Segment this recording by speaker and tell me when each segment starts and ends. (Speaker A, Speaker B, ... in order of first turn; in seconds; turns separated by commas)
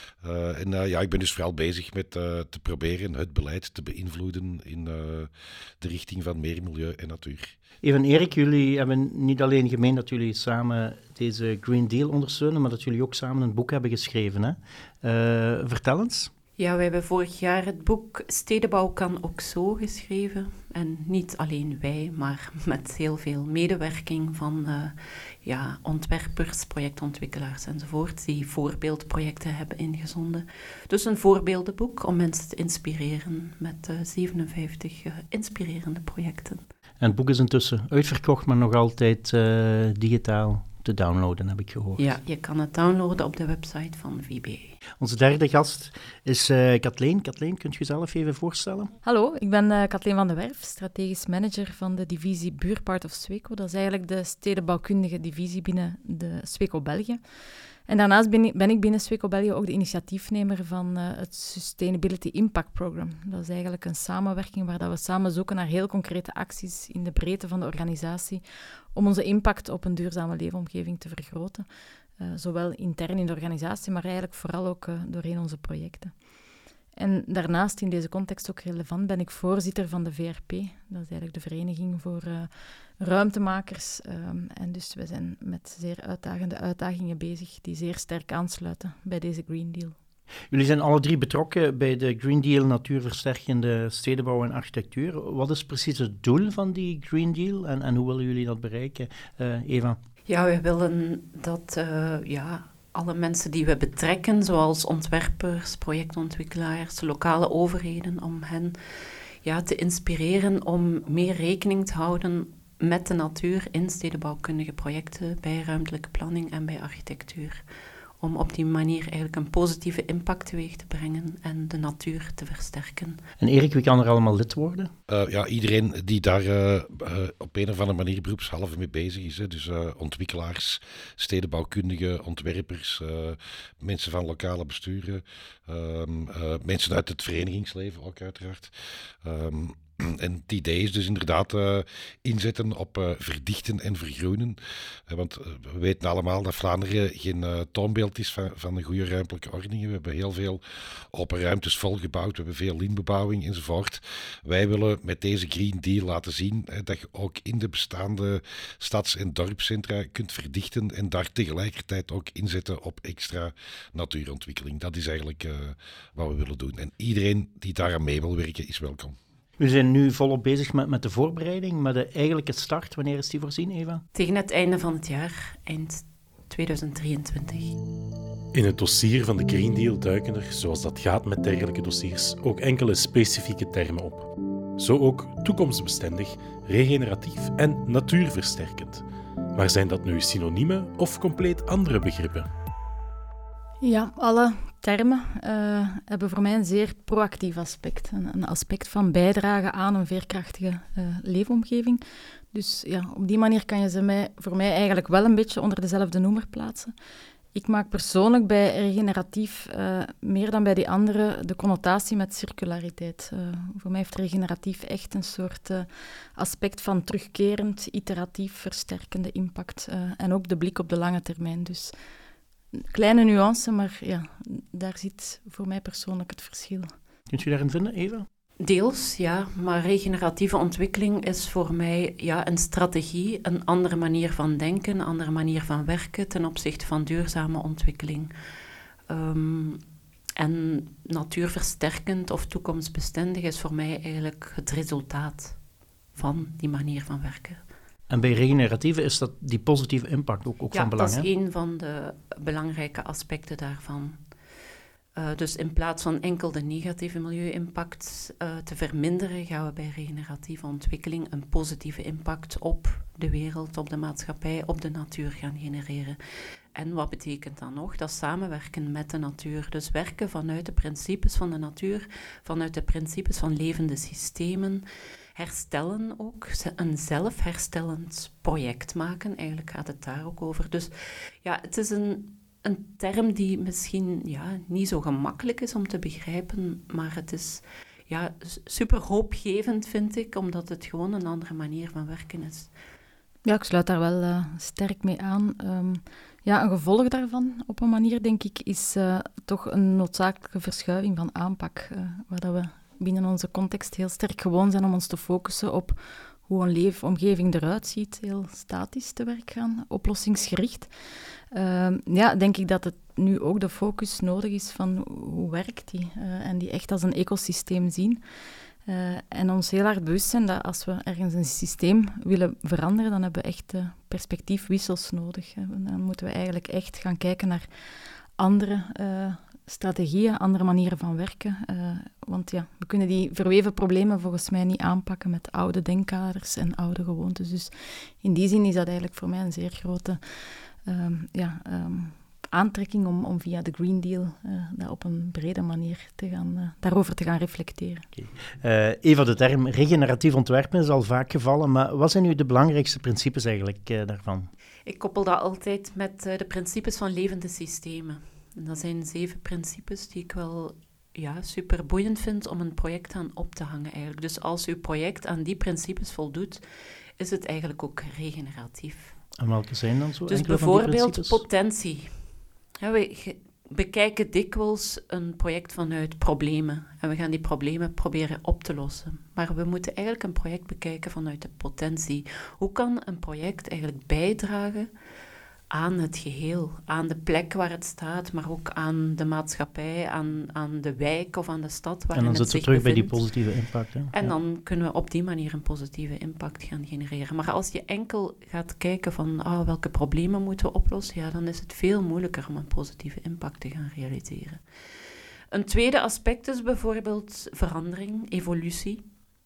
Speaker A: 0.2-7.6, Speaker B: 7.8-16.3, Speaker C: 16.6-36.7, Speaker B: 37.0-42.1, Speaker C: 42.0-44.8, Speaker B: 45.0-48.9, Speaker D: 49.0-57.2, Speaker D: 57.9-68.4, Speaker D: 68.9-71.7, Speaker D: 72.2-76.1, Speaker D: 77.0-90.0, Speaker B: 90.5-100.0, Speaker C: 100.3-108.8, Speaker C: 109.4-117.6, Speaker C: 118.2-123.2, Speaker B: 123.4-124.9, Speaker A: 125.1-169.2, Speaker B: 169.6-174.0, Speaker C: 174.2-177.8, Speaker E: 178.5-189.0, Speaker E: 189.6-192.5, Speaker D: 193.8-206.9, Speaker D: 207.6-221.9, Speaker D: 222.8-226.9, Speaker B: 227.3-228.3, Speaker C: 228.6-238.3, Speaker C: 239.1-239.8, Speaker C: 240.4-245.6, Speaker C: 246.2-247.6, Speaker B: 248.1-251.3, Speaker C: 250.7-254.2, Speaker C: 255.2-266.2, Speaker C: 266.8-274.9, Speaker C: 275.4-280.9, Speaker C: 281.4-292.7, Speaker D: 293.4-310.9, Speaker D: 311.5-318.2, Speaker D: 318.9-327.7, Speaker D: 328.4-340.2, Speaker D: 340.9-348.1, Speaker B: 348.1-354.5, Speaker C: 354.9-366.6, Speaker C: 367.2-369.2, Speaker B: 369.4-371.4, Speaker C: 370.3-372.3, Speaker C: 372.8-384.9, Speaker C: 385.7-393.2, Speaker B: 392.1-394.3, Speaker C: 394.1-404.6, Speaker C: 405.5-409.0